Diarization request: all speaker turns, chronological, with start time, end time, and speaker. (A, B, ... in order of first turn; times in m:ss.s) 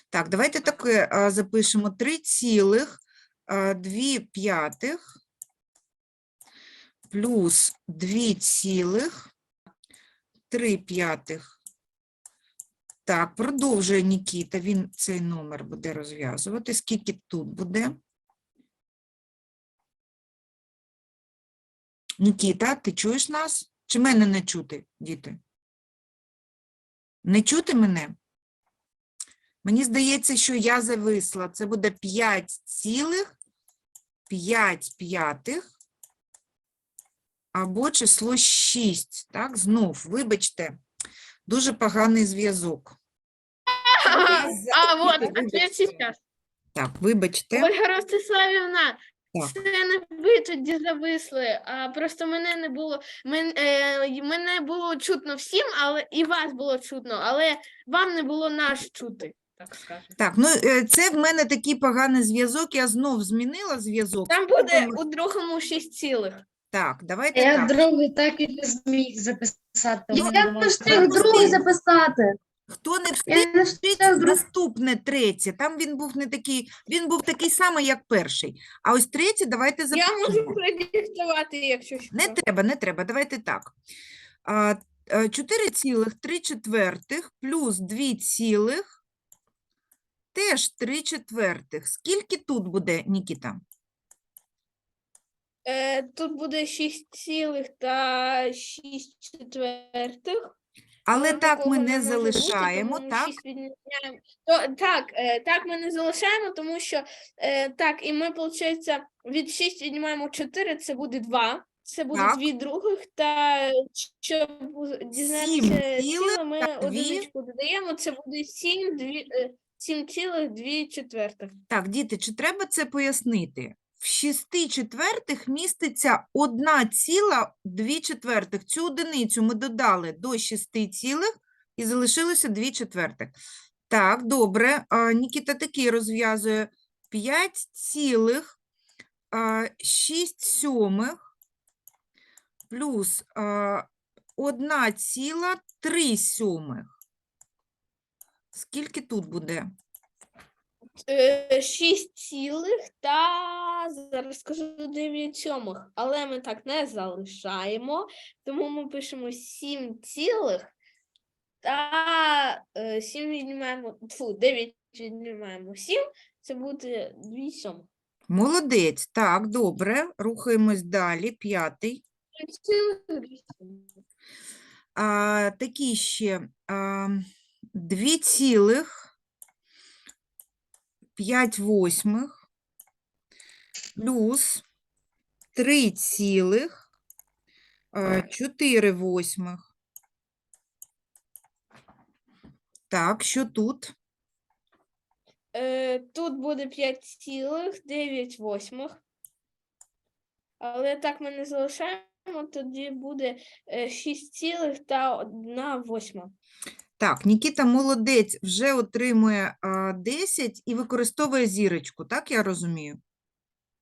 0:00.1-0:05.0 A
0:07.1-0:09.3 A
0:10.5-0:11.6 A
0:13.1-0:18.0 A
0:22.2-0:25.4 A
0:27.2-0:28.1 A
0:29.6-0:33.3 A
0:34.3-0:35.7 A
0:37.5-0:40.8 A
0:41.5-0:43.0 A
0:43.7-0:46.2 B
0:44.0-0:46.0 A
0:46.8-0:47.7 A
0:47.6-1:00.1 B
1:00.2-1:05.0 A
1:04.3-1:06.4 B
1:06.7-1:07.8 A
1:07.3-1:11.6 C
1:10.1-1:12.4 D
1:10.8-1:11.6 A
1:12.7-1:20.6 A
1:13.3-1:14.4 D
1:19.9-1:22.4 B
1:22.1-1:23.7 A
1:24.4-1:29.0 A
1:30.3-1:33.6 A
1:35.6-1:40.5 B
1:41.1-1:43.4 A
1:41.1-2:01.6 B
1:52.1-1:52.4 A
1:55.2-1:57.3 A
2:01.7-2:13.3 A
2:13.9-2:18.6 A
2:19.3-2:21.2 A
2:22.7-2:23.8 A
2:24.4-2:26.9 A
2:28.5-2:29.7 A
2:31.0-2:40.7 B
2:41.6-2:47.9 B
2:48.3-2:52.0 A
2:52.4-2:53.9 B
2:54.9-2:59.1 A
3:01.2-3:02.4 A
3:04.0-3:04.6 A
3:05.6-3:06.8 A
3:07.9-3:09.7 A
3:12.9-3:13.9 A
3:15.5-3:19.0 B
3:20.6-3:26.3 B
3:27.0-3:33.0 A